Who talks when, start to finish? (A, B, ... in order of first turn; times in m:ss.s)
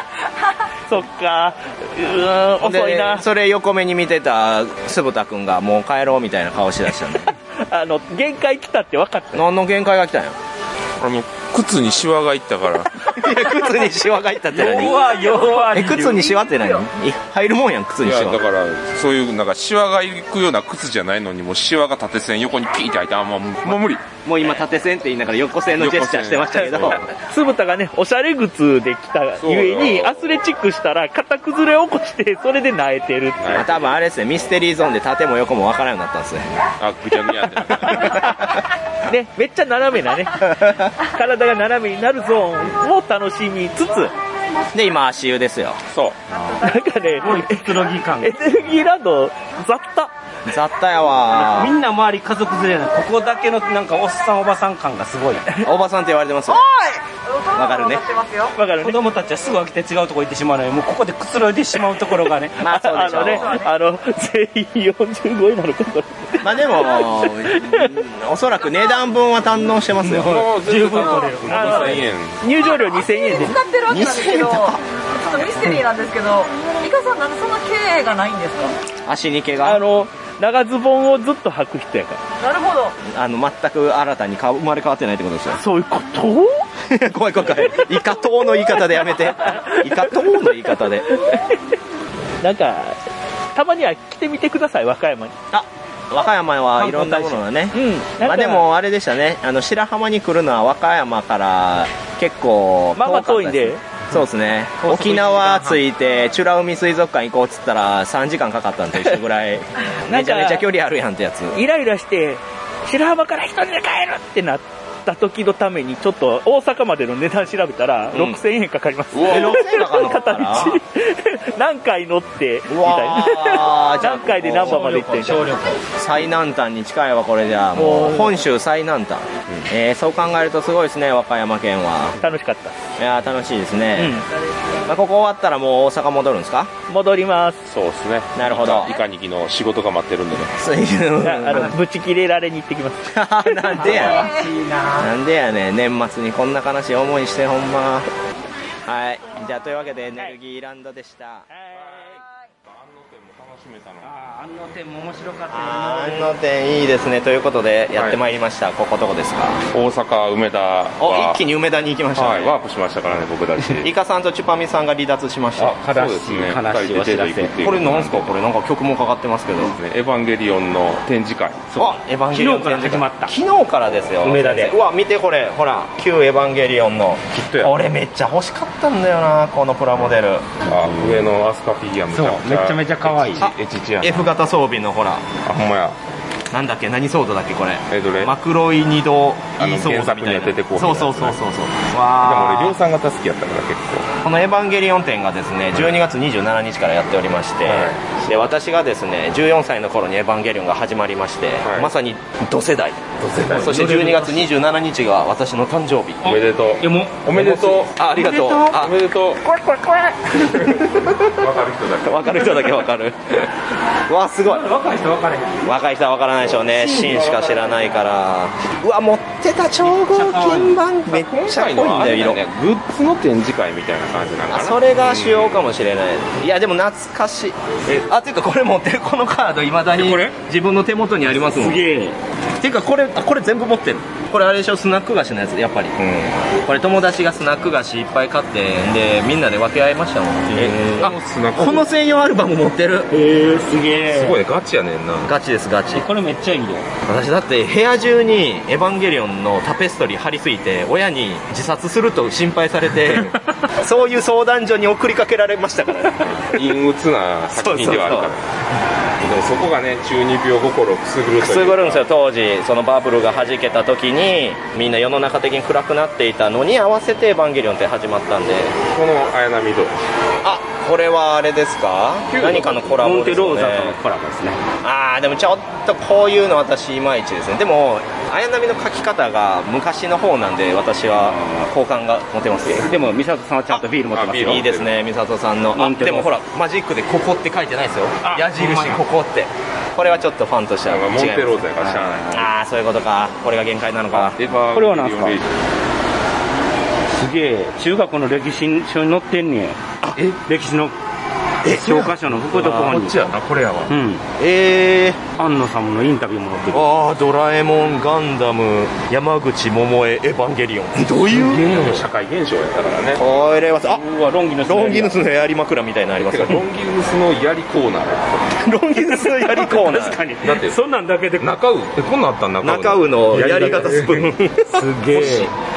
0:00.9-0:03.2 A
0:02.6-0:07.3 B
0:07.6-0:09.4 A
0:09.3-0:10.4 B
0:11.0-0:13.1 C
0:13.1-0:15.0 B
0:14.6-0:16.3 D
0:14.6-0:16.8 E
0:15.7-0:18.4 B
0:18.0-0:24.0 C
0:24.2-0:27.1 B
0:25.7-0:27.1 C
0:27.1-0:33.6 A
0:29.4-0:30.2 C
0:33.4-0:33.8 C
0:33.5-0:36.5 B
0:36.8-0:38.4 C
0:37.8-0:38.4 B
0:39.0-0:44.1 A
0:44.7-0:45.8 B
0:45.9-0:46.2 C
0:46.6-0:50.1 A
0:47.2-0:48.5 D
0:50.5-0:51.7 B
0:51.3-0:55.5 D
0:55.6-0:56.6 B
0:56.5-0:58.6 E
0:57.6-0:58.0 B
0:58.5-0:59.0 A
0:58.8-1:02.8 D
1:02.6-1:03.6 B
1:02.7-1:07.9 A
1:03.0-1:03.7 E
1:06.4-1:10.4 B
1:10.0-1:12.0 D
1:10.1-1:12.4 C
1:10.8-1:13.6 A
1:12.6-1:18.8 E
1:13.9-1:14.8 B
1:19.1-1:19.8 B
1:19.6-1:22.2 A
1:22.4-1:23.0 E
1:23.1-1:25.6 B
1:25.6-1:26.6 A
1:26.9-1:31.2 B
1:29.4-1:30.3 A
1:31.2-1:31.6 A
1:32.4-1:33.0 A
1:33.6-1:35.4 A
1:35.5-1:51.6 B
1:36.8-1:38.7 A
1:43.0-1:43.8 A
1:45.2-1:45.6 A
1:50.1-1:50.6 A
1:51.5-2:05.4 A
1:58.1-1:58.4 B
1:59.1-2:00.0 C
1:59.2-2:00.8 B
2:02.7-2:05.3 B
2:04.7-2:05.9 D
2:06.0-2:12.2 B
2:07.8-2:08.4 A
2:12.2-2:12.8 A
2:13.0-2:14.3 B
2:14.0-2:14.3 A
2:14.9-2:16.7 B
2:16.9-2:17.6 A
2:17.7-2:20.6 C
2:18.4-2:18.9 B
2:20.6-2:21.8 B
2:21.2-2:23.9 A
2:23.1-2:24.4 B
2:23.8-2:25.1 D
2:23.9-2:24.5 E
2:25.0-2:28.1 B
2:28.8-2:31.5 B
2:31.5-2:32.2 A
2:31.7-2:34.1 C
2:34.0-2:36.3 D
2:35.5-2:39.6 B
2:38.0-2:38.2 C
2:39.7-2:41.4 C
2:41.0-2:42.5 B
2:42.2-2:43.9 C
2:43.8-2:45.8 B
2:45.6-2:48.3 C
2:45.6-2:47.5 D
2:47.6-2:49.8 B
2:49.6-2:51.7 C
2:51.7-2:53.3 D
2:51.8-3:00.5 B
2:54.2-2:54.8 D
2:57.3-2:57.8 C
3:00.7-3:04.3 C
3:02.1-3:03.5 D
3:03.4-3:05.4 B
3:05.4-3:06.0 C
3:06.5-3:12.8 B
3:07.9-3:08.3 C
3:09.6-3:11.4 C
3:12.2-3:14.1 C
3:14.2-3:26.2 B
3:17.6-3:18.4 C
3:21.6-3:21.9 C
3:23.2-3:23.8 C
3:23.4-3:24.5 D
3:26.2-3:28.8 D
3:26.2-3:28.0 C
3:27.7-3:29.0 B
3:28.7-3:29.6 C
3:29.5-3:31.2 B
3:30.2-3:32.8 C
3:32.0-3:33.4 B
3:34.1-3:34.7 B
3:34.4-3:35.7 D
3:35.6-3:42.4 B
3:36.8-3:37.3 D
3:36.9-3:37.6 C
3:39.9-3:40.8 D
3:41.1-3:45.7 C
3:44.5-3:51.8 B
3:50.0-3:50.4 D
3:51.4-3:52.2 D
3:52.6-3:56.0 B
3:56.0-3:56.4 C
3:56.6-4:03.1 B
4:00.5-4:01.9 C
4:03.1-4:04.4 D
4:04.1-4:05.3 C
4:05.2-4:06.0 B
4:05.9-4:06.9 D
4:07.1-4:16.6 B
4:16.2-4:18.4 C
4:17.6-4:18.3 B
4:19.2-4:22.0 C
4:21.4-4:28.8 B
4:28.9-4:30.0 C
4:30.4-4:34.0 B
4:32.3-4:33.0 C
4:33.0-4:34.6 D
4:34.8-4:42.9 B
4:41.2-4:41.7 D
4:42.8-4:44.6 D
4:44.1-4:44.9 C
4:44.4-4:51.6 B
4:45.7-4:46.3 D
4:48.2-4:49.0 D
4:50.9-4:52.5 C
4:51.8-4:52.3 D
4:52.3-4:54.4 B
4:54.1-4:55.5 C
4:54.7-4:55.4 D
4:57.1-4:59.8 D
5:00.4-5:01.0 D
5:01.6-5:02.2 B
5:01.6-5:03.3 D
5:02.2-5:03.9 C
5:03.9-5:04.2 D
5:04.4-5:05.2 B
5:05.3-5:06.9 D
5:06.7-5:12.0 B
5:11.4-5:11.9 D
5:11.4-5:13.2 C
5:13.2-5:14.0 B
5:13.8-5:15.2 D
5:14.7-5:16.6 B
5:16.2-5:18.6 C
5:18.6-5:20.2 B
5:19.2-5:21.5 D
5:20.4-5:20.8 C
5:21.4-5:24.2 C
5:22.6-5:25.5 B
5:23.3-5:25.5 D
5:25.2-5:25.4 C